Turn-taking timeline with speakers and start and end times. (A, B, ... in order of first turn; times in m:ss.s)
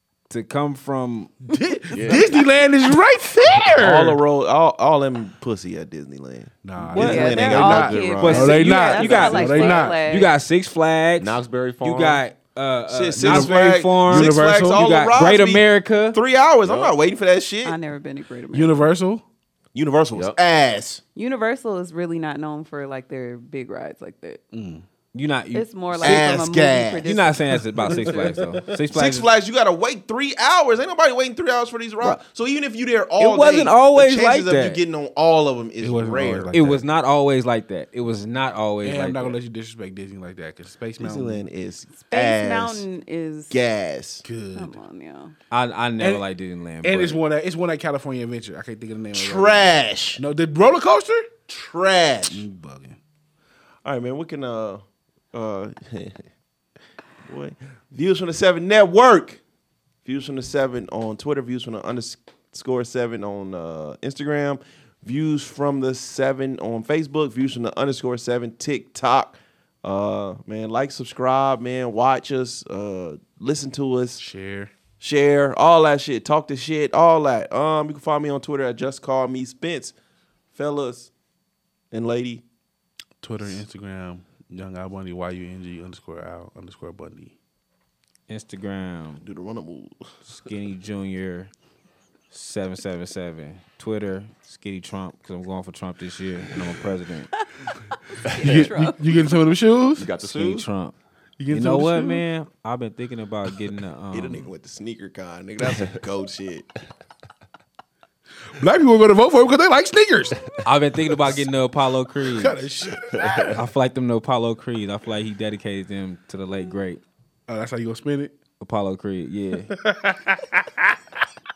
0:00.3-0:01.5 A
0:01.5-0:04.2 B
0:01.9-0:02.5 C
0:03.8-0:09.8 D
0:06.6-0:10.0 B
0:07.0-0:10.3 E
0:07.0-0:07.6 A
0:08.2-0:16.2 A
0:11.2-0:12.2 C
0:12.9-0:17.8 D
0:13.2-0:15.0 B
0:16.6-0:17.0 C
0:17.6-0:18.9 E
0:18.5-0:19.2 B
0:19.7-0:21.0 D
0:21.1-0:24.4 E
0:24.5-0:24.8 B
0:25.1-0:26.4 A
0:25.5-0:28.5 E
0:26.0-0:27.1 D
0:27.0-0:29.3 A
0:27.8-0:28.8 B
0:28.9-0:36.8 D
0:33.2-0:34.8 A
0:35.8-0:36.7 B
0:36.5-0:39.4 A
0:38.8-0:41.5 B
0:41.0-0:42.8 D
0:41.9-0:43.6 E
0:43.5-0:44.2 D
0:44.2-0:44.8 B
0:44.5-0:45.4 E
0:45.5-0:47.2 A
0:46.0-0:46.2 B
0:46.8-0:51.3 B
0:49.1-0:50.2 D
0:51.5-0:52.4 D
0:52.2-0:53.0 B
0:53.8-0:56.3 D
0:57.2-0:59.4 D
1:00.0-1:14.2 D
1:14.2-1:14.7 B
1:15.0-1:19.9 D
1:20.5-1:21.1 D
1:21.9-1:22.4 D
1:23.2-1:27.4 B
1:28.3-1:29.2 A
1:29.2-1:30.0 D
1:30.2-1:31.5 A
1:32.3-1:37.3 A
1:38.1-1:39.0 E
1:38.3-1:38.7 C
1:38.4-1:40.1 B
1:40.0-1:40.7 C
1:40.2-1:40.9 A
1:41.4-1:42.2 B
1:41.5-1:44.5 A
1:44.1-1:46.7 D
1:48.5-1:50.4 B
1:50.6-1:52.6 A
1:51.1-1:51.4 B
1:52.2-1:53.6 B
1:53.2-1:53.5 C
1:53.5-1:57.0 A
1:57.5-1:58.4 B
1:58.6-1:59.7 A
1:59.7-2:01.0 B